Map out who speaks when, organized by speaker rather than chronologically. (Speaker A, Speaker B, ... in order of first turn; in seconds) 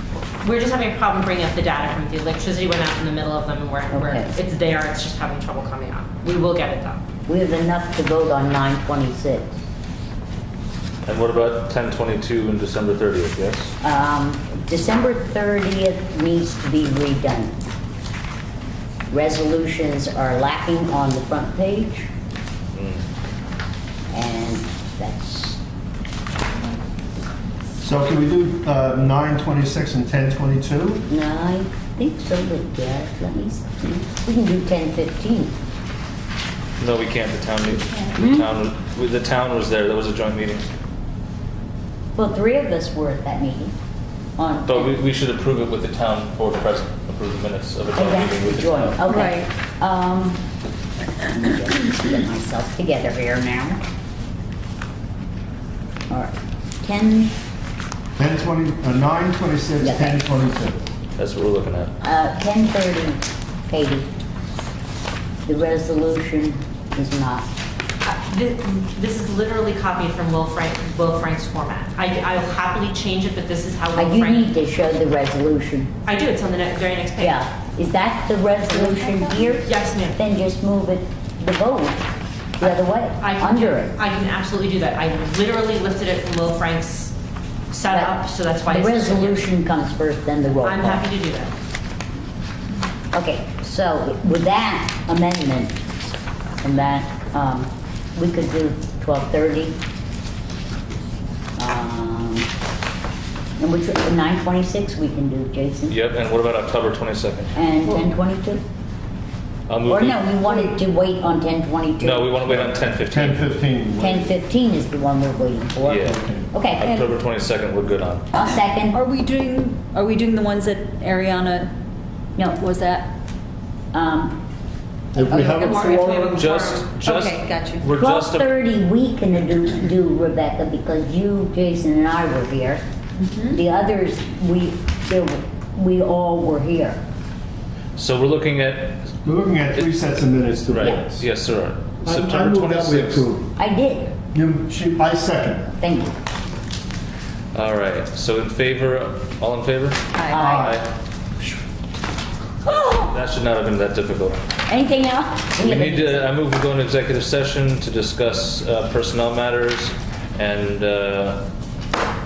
Speaker A: 0.4-7.0, 68.0-74.5, 76.0-77.4, 79.6-80.2, 82.6-87.1, 87.7-89.5, 90.6-91.5, 125.3-126.9
Speaker B: 3.9-4.3, 7.3-9.5, 13.8-17.5, 19.1-22.1, 24.1-25.6, 31.1-35.5, 38.1-38.5, 42.1-43.7, 44.4-45.0, 47.9-50.4, 51.3-53.8, 56.1-57.3, 59.8-60.2, 62.0-64.1, 65.5-67.5, 73.9-75.9, 77.2-82.0, 82.6-83.9, 87.9-91.1, 93.1-96.0, 96.6-99.8, 101.6-102.5, 103.6-106.0, 107.5-108.6, 109.9-112.5, 114.0-116.8, 118.3-119.0, 123.9-124.4, 125.3-126.5, 127.9-132.8, 133.5-137.0, 143.6-144.1, 145.8-146.1, 150.3-150.8, 152.7-153.1, 154.7-156.3
Speaker C: 11.0-13.7, 22.7-23.0, 36.8-40.6, 44.6-49.0, 61.2-61.9, 105.9-107.5, 109.7-110.3, 112.0-113.5, 115.8-116.2, 116.7-118.3, 126.3-128.5, 137.9-139.1, 139.7-140.0, 140.7-143.3, 147.5-150.9, 152.6-154.4, 155.6-161.4
Speaker D: 27.8-31.0, 58.2-60.9, 112.6-114.3, 116.0-116.5, 125.1-126.2, 139.2-141.2, 142.0-143.5, 144.3-145.8, 150.3-150.8
Speaker E: 49.0-49.5, 116.8-117.2, 118.9-121.7, 122.5-123.1, 127.0-127.9, 133.2-133.6, 150.1-150.6